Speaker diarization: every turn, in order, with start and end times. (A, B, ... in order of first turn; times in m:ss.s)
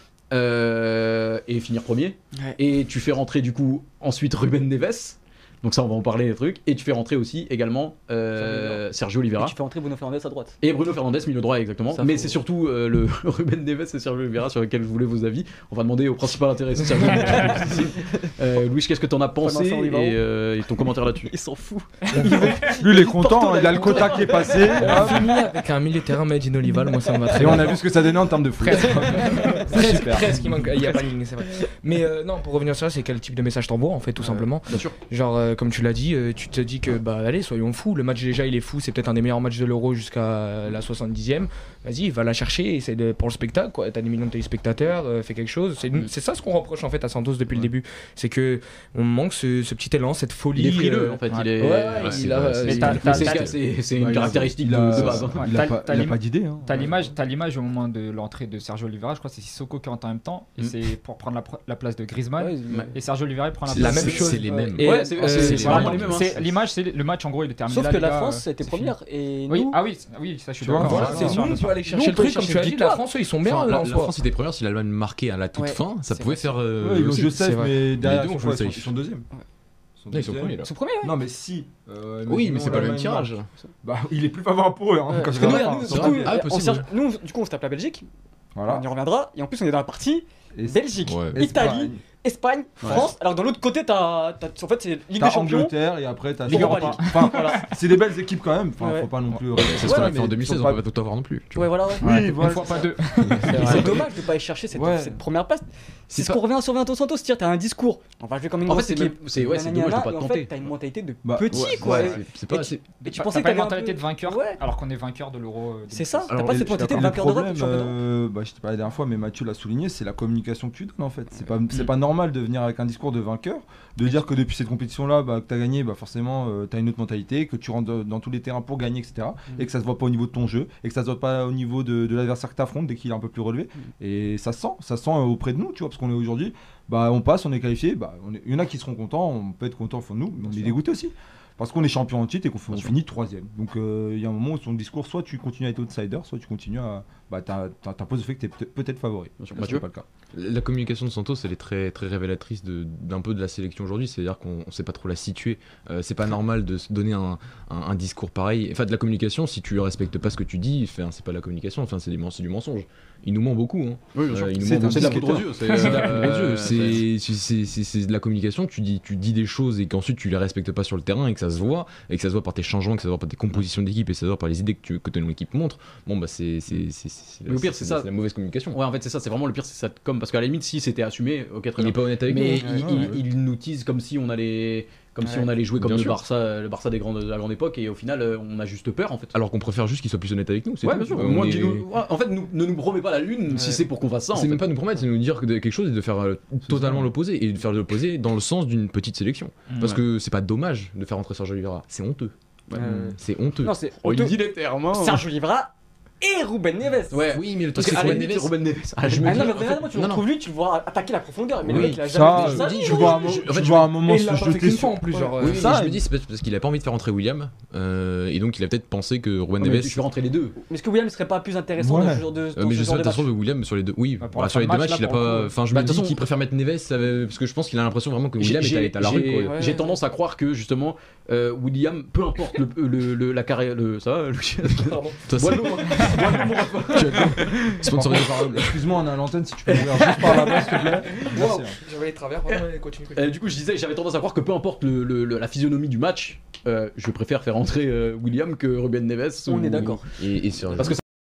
0:00.3-0:09.5 A
0:08.4-0:08.8 B
0:09.4-0:10.6 B
0:10.6-0:21.3 A
0:11.9-0:12.4 B
0:17.7-0:18.2 B
0:19.4-0:20.2 B
0:20.8-0:25.5 B
0:22.2-0:25.3 C
0:22.2-0:22.5 D
0:24.7-0:27.9 E
0:27.3-0:27.8 B
0:27.3-0:30.6 C
0:28.6-0:29.7 B
0:29.2-0:54.4 E
0:34.7-0:34.9 A
0:50.5-0:55.5 A
0:51.3-0:51.6 D
0:51.9-0:53.6 F
0:52.6-0:53.6 D
0:54.1-0:55.1 F
0:54.6-0:57.0 C
0:55.3-1:08.9 D
1:02.4-1:02.9 B
1:03.7-1:06.5 F
1:03.7-1:06.0 E
1:04.8-1:06.4 A
1:07.6-1:09.8 B
1:09.5-1:11.8 D
1:10.6-1:11.4 C
1:10.8-1:14.2 E
1:11.1-1:13.0 B
1:11.9-1:12.8 A
1:13.4-1:18.9 F
1:15.6-1:16.6 B
1:16.8-1:19.3 C
1:17.4-1:17.8 E
1:20.0-1:26.3 C
1:20.1-1:20.7 F
1:20.6-1:21.1 B
1:22.3-1:23.5 F
1:25.1-1:28.1 B
1:25.4-1:26.8 F
1:28.5-1:28.8 C
1:28.6-1:35.7 B
1:30.5-1:32.0 C
1:31.0-1:31.6 F
1:35.1-1:40.8 C
1:36.5-1:37.7 B
1:36.5-1:37.6 D
1:38.8-1:39.1 B
1:39.5-1:41.7 F
1:39.8-1:40.2 B
1:41.5-1:42.5 B
1:42.0-1:44.0 C
1:42.0-1:44.1 D
1:43.2-1:43.8 F
1:43.4-1:54.6 B
1:44.7-1:45.2 C
1:48.6-1:50.5 A
1:51.2-1:52.1 C
1:51.5-1:52.9 F
1:51.8-1:52.2 D
1:53.0-1:57.0 D
1:55.9-1:58.0 B
1:56.4-2:30.0 C
2:29.4-2:29.8 A
2:30.3-2:58.8 F
2:44.1-2:47.1 A
2:44.5-2:45.8 C
2:57.4-2:58.1 A
2:58.7-3:09.4 A
3:01.8-3:03.2 F
3:02.6-3:03.2 C
3:05.2-3:05.5 B
3:05.8-3:06.2 F
3:09.3-3:11.9 F
3:10.8-3:14.6 A
3:13.5-3:13.8 B
3:14.3-3:23.7 F
3:16.7-3:17.1 C
3:22.7-3:24.4 B
3:24.0-3:25.2 A
3:24.9-3:27.2 B
3:27.1-3:29.7 A
3:27.2-3:30.2 F
3:29.2-3:33.4 B
3:31.6-3:34.0 F
3:31.6-3:36.0 C
3:33.9-3:35.8 E
3:35.1-3:35.4 B
3:35.4-3:40.0 F
3:39.6-3:40.6 A
3:40.7-3:43.3 B
3:41.8-3:42.3 C
3:42.5-3:49.6 F
3:44.2-3:45.6 D
3:45.7-3:46.3 A
3:48.4-3:57.8 A
3:49.4-3:50.0 B
3:54.8-3:55.2 E
3:55.3-3:58.7 F
3:57.9-4:01.8 C
3:59.7-4:00.7 A
4:01.1-4:03.3 E
4:02.5-4:10.0 A
4:09.4-4:10.1 B
4:10.2-4:11.0 F
4:10.7-4:11.0 A